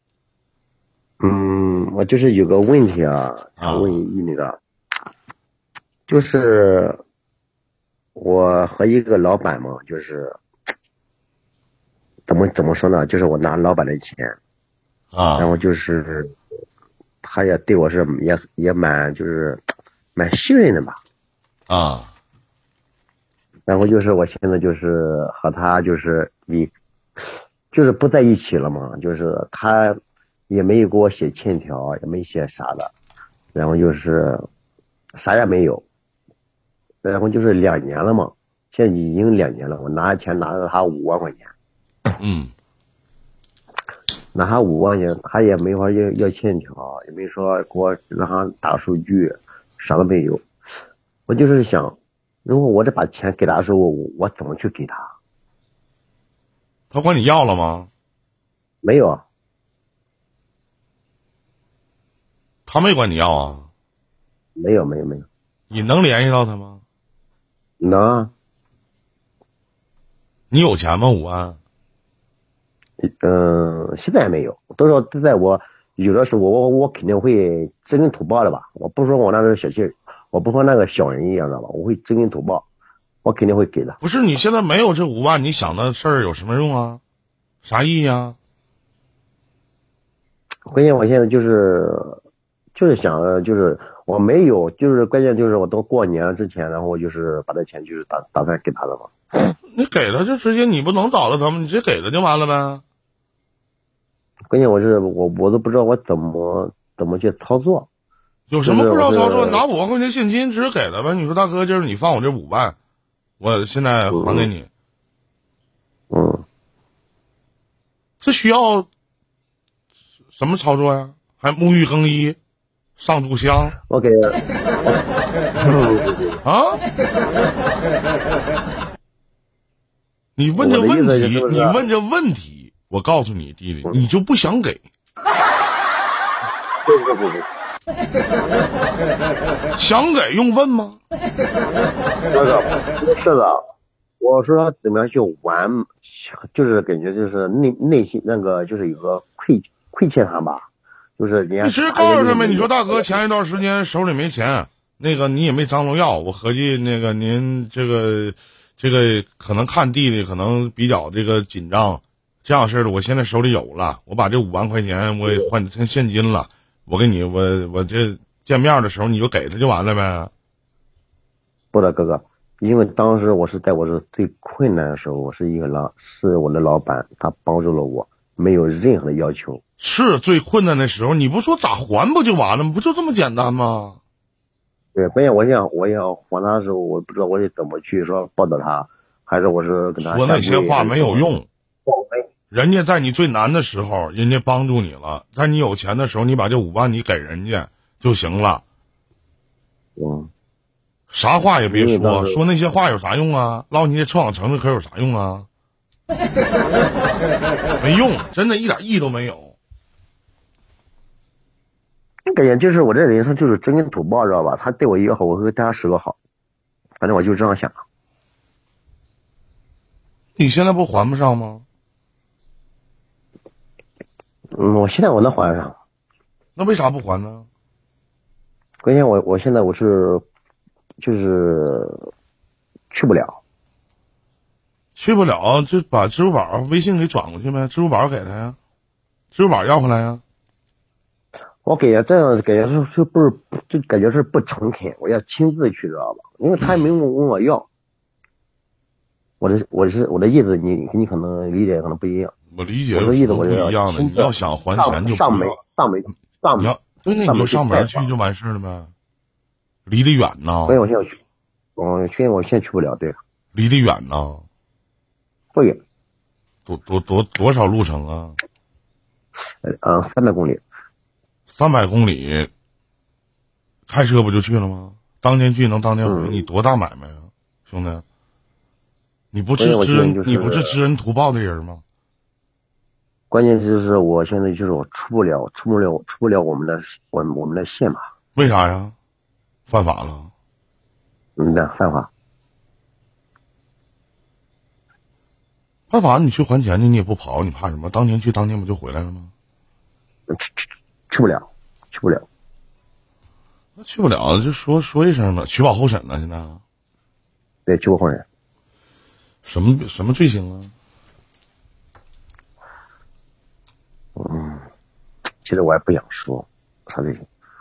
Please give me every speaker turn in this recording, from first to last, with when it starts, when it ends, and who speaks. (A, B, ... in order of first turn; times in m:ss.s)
0:01.2-0:04.6 A
0:03.6-0:04.0 B
0:06.1-0:07.0 A
0:08.2-0:10.3 A
0:12.3-0:14.4 A
0:15.1-0:15.5 B
0:15.4-0:16.3 A
0:17.2-0:19.6 A
0:20.2-0:21.0 A
0:21.7-0:22.1 B
0:23.7-0:30.0 A
0:30.5-0:32.9 A
0:33.5-0:34.4 A
0:35.2-0:35.8 A
0:37.0-0:41.5 A
0:42.2-0:42.5 B
0:44.3-0:50.4 A
0:51.3-0:55.1 A
0:56.9-0:57.9 B
0:58.8-0:59.2 A
1:02.7-1:03.7 B
1:04.6-1:05.3 A
1:05.7-1:06.8 B
1:07.8-1:08.3 A
1:10.5-1:11.6 B
1:13.0-1:22.6 A
1:23.2-1:24.0 A
1:24.0-1:27.0 B
1:27.6-1:28.4 B
1:30.7-1:32.2 A
1:32.7-1:39.1 A
1:39.7-1:42.8 B
1:44.5-1:47.9 A
1:48.5-1:52.8 B
1:48.6-1:49.6 A
1:53.4-1:54.7 B
1:54.1-1:54.5 A
1:56.1-1:56.4 A
1:58.2-1:58.9 B
2:00.3-2:02.4 B
2:03.0-2:03.8 B
2:03.9-2:05.0 A
2:05.6-2:06.4 A
2:06.4-2:06.8 B
2:10.4-2:14.8 B
2:10.6-2:11.8 A
2:16.8-2:17.4 A
2:19.7-2:21.0 B
2:22.3-2:23.6 A
2:24.2-2:30.6 A
2:31.2-2:33.2 A
2:31.6-2:50.3 B
2:51.7-2:59.6 A
2:59.8-3:04.0 B
3:04.9-3:11.3 A
3:10.0-3:11.5 B
3:11.9-3:12.2 A
3:12.5-3:18.6 B
3:20.0-3:20.3 A
3:21.1-3:25.5 B
3:21.7-3:22.4 A
3:27.8-3:29.6 B
3:32.3-3:36.2 A
3:37.0-3:37.8 A
3:40.4-3:41.6 B
3:44.5-3:45.8 A
3:46.6-3:47.5 B
3:48.8-3:50.2 A
3:51.0-3:52.1 A
3:52.9-3:53.4 A
3:55.0-3:58.6 B
3:59.3-4:00.2 B
4:01.6-4:07.7 A
4:09.4-4:12.3 A
4:12.5-4:15.6 B
4:12.9-4:16.7 A
4:16.6-4:18.9 B
4:17.2-4:18.1 A
4:19.8-4:20.8 B
4:20.7-4:21.2 A
4:21.8-4:23.2 A
4:23.5-4:24.4 B
4:25.5-4:25.8 A
4:26.7-4:28.4 B
4:29.6-4:30.6 A
4:31.5-4:32.5 B
4:33.9-4:38.0 B
4:36.0-4:36.4 A
4:39.3-4:41.8 B
4:39.6-4:40.8 A
4:43.3-4:48.0 A
4:48.4-4:48.9 B
4:49.7-4:50.3 B
4:51.4-4:52.1 A
4:55.9-4:59.3 B
5:00.3-5:02.2 A
5:03.8-5:06.6 B
5:07.7-5:08.2 A
5:09.4-5:10.7 B
5:14.2-5:14.6 A
5:15.4-5:17.2 A